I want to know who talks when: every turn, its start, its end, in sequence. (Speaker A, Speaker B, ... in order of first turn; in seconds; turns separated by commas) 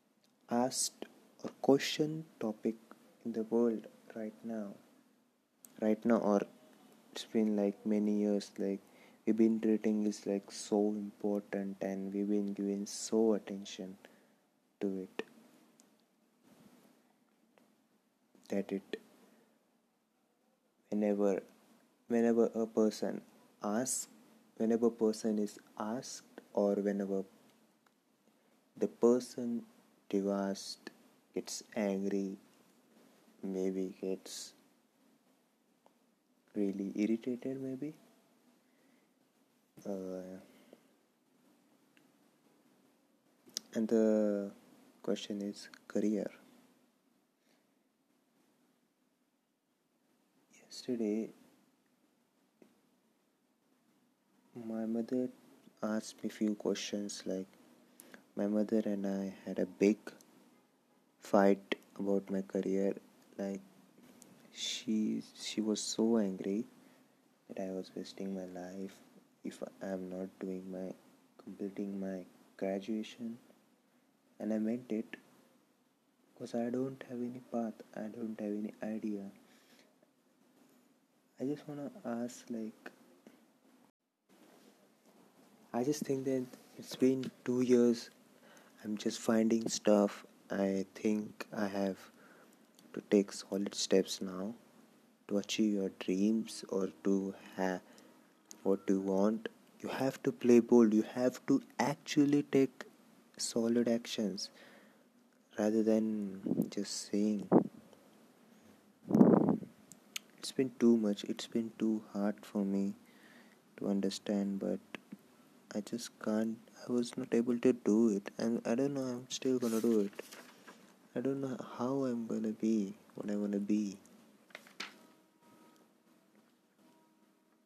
Speaker A: 0.5-4.8, Speaker A: 5.8-6.5, Speaker A: 7.1-14.0, Speaker A: 14.8-15.2, Speaker A: 18.5-19.0, Speaker A: 20.9-21.4, Speaker A: 22.1-27.3, Speaker A: 28.8-32.4, Speaker A: 33.4-34.5, Speaker A: 36.5-38.0, Speaker A: 39.8-40.4, Speaker A: 43.7-46.4, Speaker A: 50.6-51.3, Speaker A: 54.5-57.5, Speaker A: 58.4-60.1, Speaker A: 61.2-63.6, Speaker A: 64.5-66.7, Speaker A: 67.5-73.4, Speaker A: 74.4-75.2, Speaker A: 76.4-79.3, Speaker A: 81.4-82.9, Speaker A: 85.7-88.1, Speaker A: 88.8-92.1, Speaker A: 92.9-94.6, Speaker A: 95.3-97.8, Speaker A: 98.6-102.8, Speaker A: 103.4-104.5, Speaker A: 105.5-107.8, Speaker A: 109.1-109.7, Speaker A: 110.4-113.0, Speaker A: 113.8-115.0, Speaker A: 115.7-120.2, Speaker A: 121.1-124.0